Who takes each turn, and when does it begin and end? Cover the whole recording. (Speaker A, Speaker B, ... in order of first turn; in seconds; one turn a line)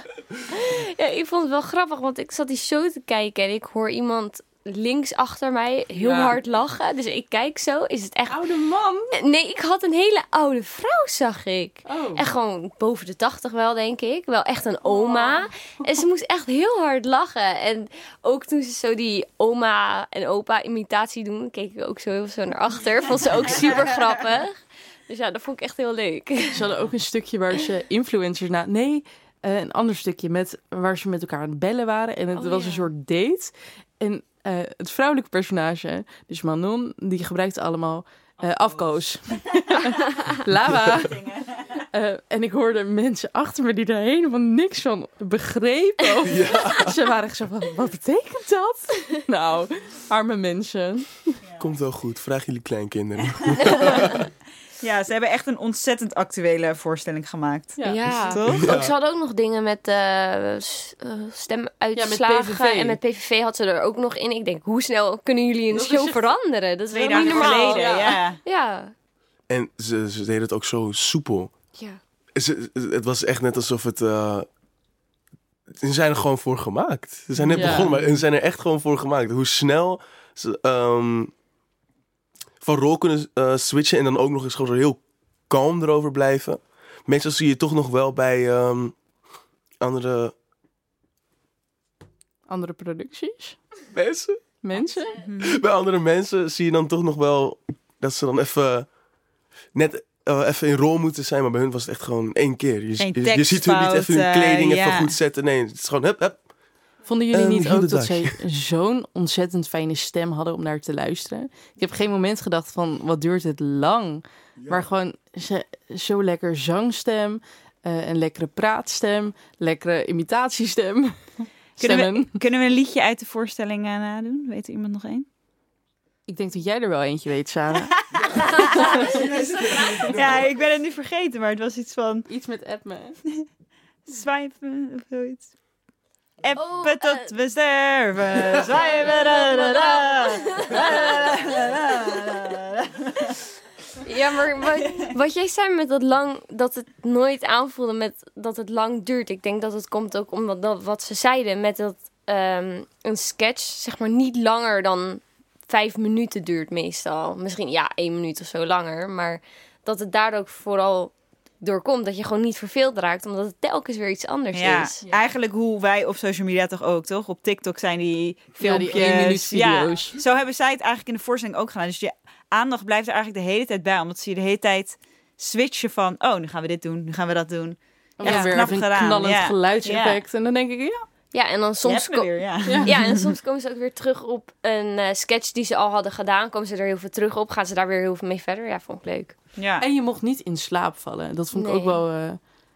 Speaker A: 0.6-8.5
Speaker B: 5.9-6.3
Speaker B: 8.3-9.2
Speaker A: 9.1-26.6
Speaker B: 11.8-12.3
Speaker B: 14.8-16.0
Speaker B: 26.5-41.2
Speaker A: 32.4-32.9
Speaker C: 38.4-39.8
Speaker C: 40.9-41.7
Speaker B: 41.9-51.4
Speaker D: 46.2-47.0
Speaker C: 51.4-51.7
Speaker D: 51.6-54.3
Speaker C: 53.6-54.0
Speaker C: 54.8-58.7
Speaker B: 57.8-58.4
Speaker A: 57.9-68.9
Speaker D: 58.4-58.9
Speaker B: 62.0-63.0
Speaker B: 65.7-66.3
Speaker C: 66.9-68.4
Speaker B: 67.1-68.2
Speaker D: 69.5-71.5
Speaker A: 71.7-72.0
Speaker D: 72.3-74.5
Speaker D: 75.8-81.3
Speaker B: 77.4-78.2
Speaker D: 82.6-89.0
Speaker D: 89.8-90.3
Speaker B: 92.5-93.6
Speaker D: 93.9-94.6
Speaker B: 94.6-95.3
Speaker C: 95.2-95.6
Speaker D: 95.4-99.0
Speaker D: 99.7-106.5
Speaker C: 103.0-105.1
Speaker B: 107.0-122.4
Speaker D: 107.3-108.4
Speaker D: 114.6-114.9
Speaker C: 121.8-125.3
Speaker B: 126.3-128.0
Speaker C: 128.1-132.3
Speaker B: 128.8-129.2
Speaker D: 129.1-130.4
Speaker B: 132.3-133.2
Speaker C: 134.1-135.6
Speaker C: 136.4-143.0
Speaker A: 136.5-137.3
Speaker A: 139.0-141.4
Speaker A: 144.0-165.0
Speaker C: 164.5-180.2
Speaker B: 168.6-170.2
Speaker B: 178.2-181.1
Speaker A: 181.3-189.4
Speaker C: 181.8-183.1
Speaker B: 182.7-182.9
Speaker C: 189.6-189.8
Speaker B: 189.8-192.5
Speaker A: 191.5-192.1